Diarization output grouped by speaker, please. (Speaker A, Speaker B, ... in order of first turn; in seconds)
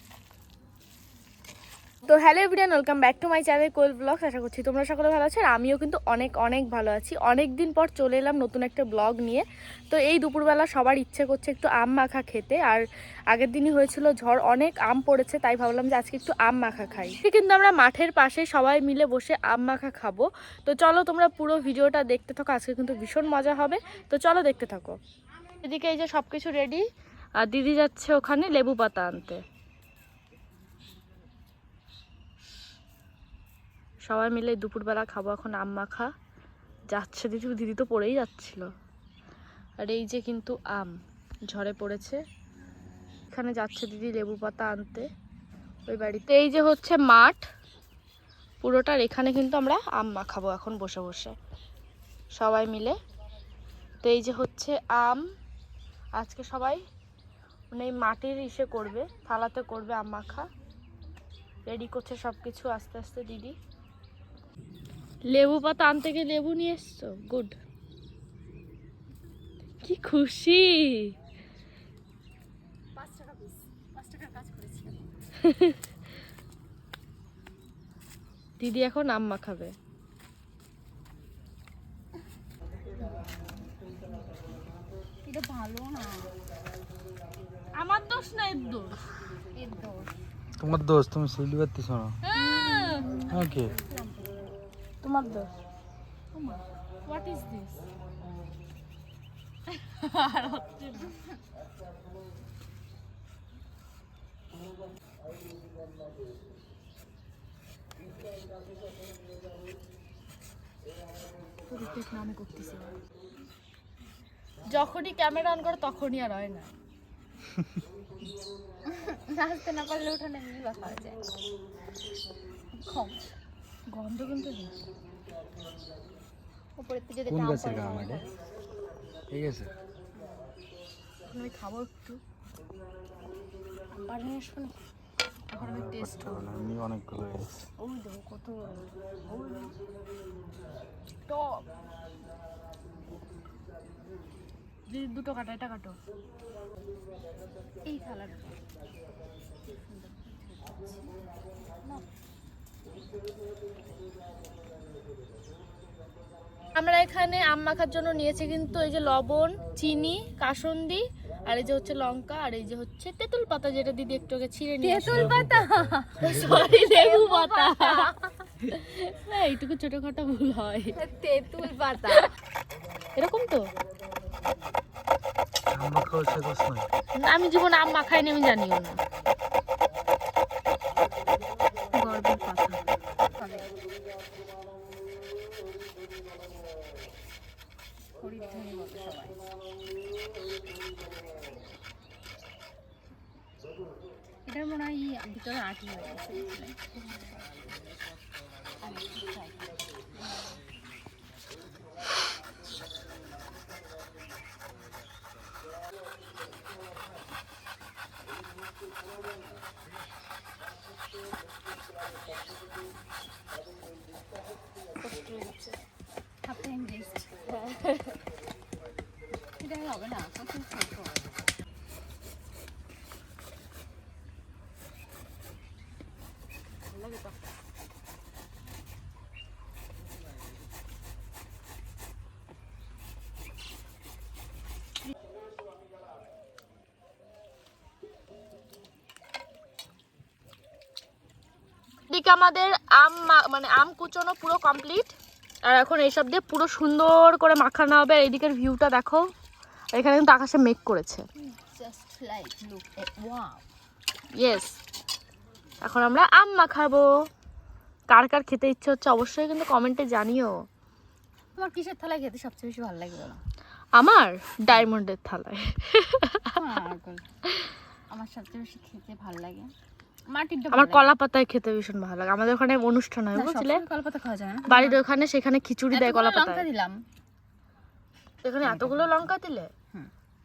Speaker A: 2.0-25.0, 25.6-26.8, 27.4-29.4, 34.1-36.1, 36.9-38.7, 39.8-40.9, 41.5-42.2, 43.3-45.0, 45.9-47.5, 48.6-51.3, 52.4-53.0, 54.0-55.2, 56.2-56.8, 57.7-60.5, 61.7-63.5, 65.3-67.6, 69.8-71.1, 75.5-75.8, 78.6-79.7, 87.8-89.0, 92.2-93.0, 95.0-95.5, 96.3-97.8, 99.9-101.1, 111.7-113.0, 114.7-116.7, 123.9-124.7, 131.3-132.2, 135.5-136.5, 137.8-139.7, 141.3-141.5, 144.9-145.9, 156.8-165.3, 166.2-168.1, 168.7-170.9, 173.2-173.7, 177.2-179.0, 215.0-215.8, 217.5-218.1, 226.9-227.3, 242.1-245.1, 245.6-249.2, 249.9-251.2, 254.4-254.8, 255.8-257.1, 258.1-260.5, 264.0-266.6, 270.7-273.8, 274.7-276.6, 278.4-279.7
Speaker B: 73.0-75.1, 85.2-86.3, 89.5-90.1, 92.3-94.5, 118.9-121.2, 122.8-123.3, 126.8-128.3, 133.9-134.8, 147.8-148.6, 149.6-151.1, 151.8-152.0, 164.8-168.3, 170.9-172.3, 181.9-183.7, 188.1-189.4, 194.4-197.5, 198.8-200.6, 216.4-217.3, 219.6-221.3, 251.4-253.6, 261.6-263.4, 266.6-267.2, 268.1-269.7, 270.3-271.1, 273.3-275.0, 275.9-277.0, 278.6-279.3
Speaker C: 90.6-92.2, 93.3-93.7, 127.3-128.2, 129.3-129.7, 135.6-137.6, 165.0-166.6, 175.7-176.9